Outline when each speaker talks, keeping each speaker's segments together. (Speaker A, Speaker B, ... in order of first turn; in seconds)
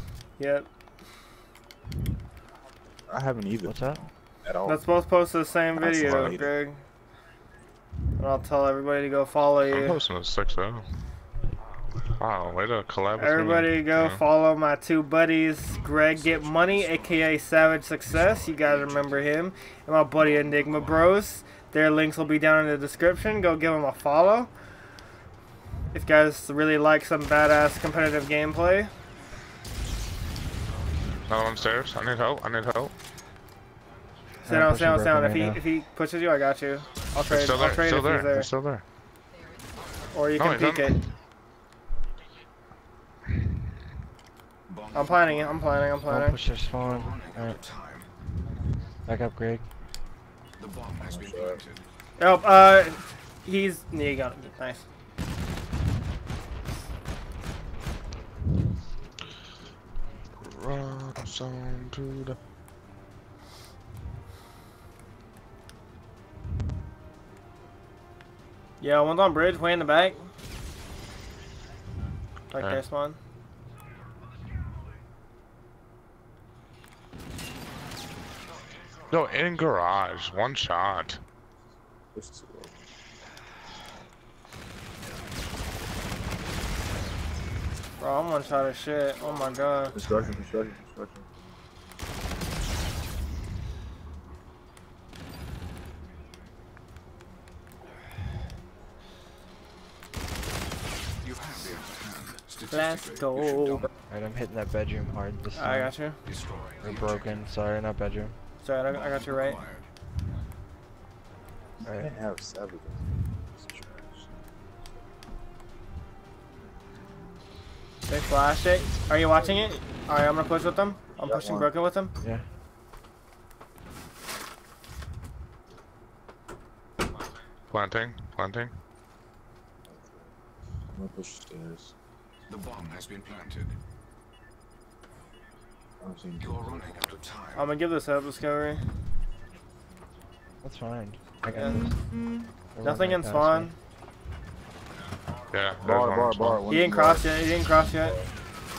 Speaker A: 0.4-0.7, 4.7-6.8, 8.2-10.0, 13.2-24.5, 25.9-28.9, 34.4-38.5, 40.1-41.0, 44.9-46.4, 52.2-54.9, 68.8-70.2, 72.5-73.2, 88.0-90.0, 102.7-103.9, 105.5-106.2, 108.6-109.6, 118.1-122.1, 137.6-138.8, 141.5-141.9, 142.8-143.8, 146.7-148.2
Speaker B: 3.1-4.8, 5.8-6.5, 51.1-51.6, 82.1-82.8, 89.9-91.2, 111.8-114.3, 121.2-121.7, 129.9-130.3, 130.9-131.9, 136.0-137.1, 145.8-148.1
Speaker C: 3.6-4.0, 34.5-35.6, 46.1-47.6, 49.1-49.6, 104.1-105.9, 106.8-108.4, 111.8-112.1, 140.6-142.0, 142.7-143.7
Speaker D: 9.7-10.8, 12.2-14.2, 31.3-32.9, 37.2-38.8, 40.4-41.1, 60.4-62.4, 72.6-72.8, 79.1-81.2, 127.7-128.7, 145.5-146.7
Speaker E: 16.1-17.4, 18.1-19.4, 44.7-45.9, 46.8-48.1, 50.6-51.8, 101.2-103.9, 106.2-107.5, 108.9-109.9, 132.5-133.8, 136.4-137.7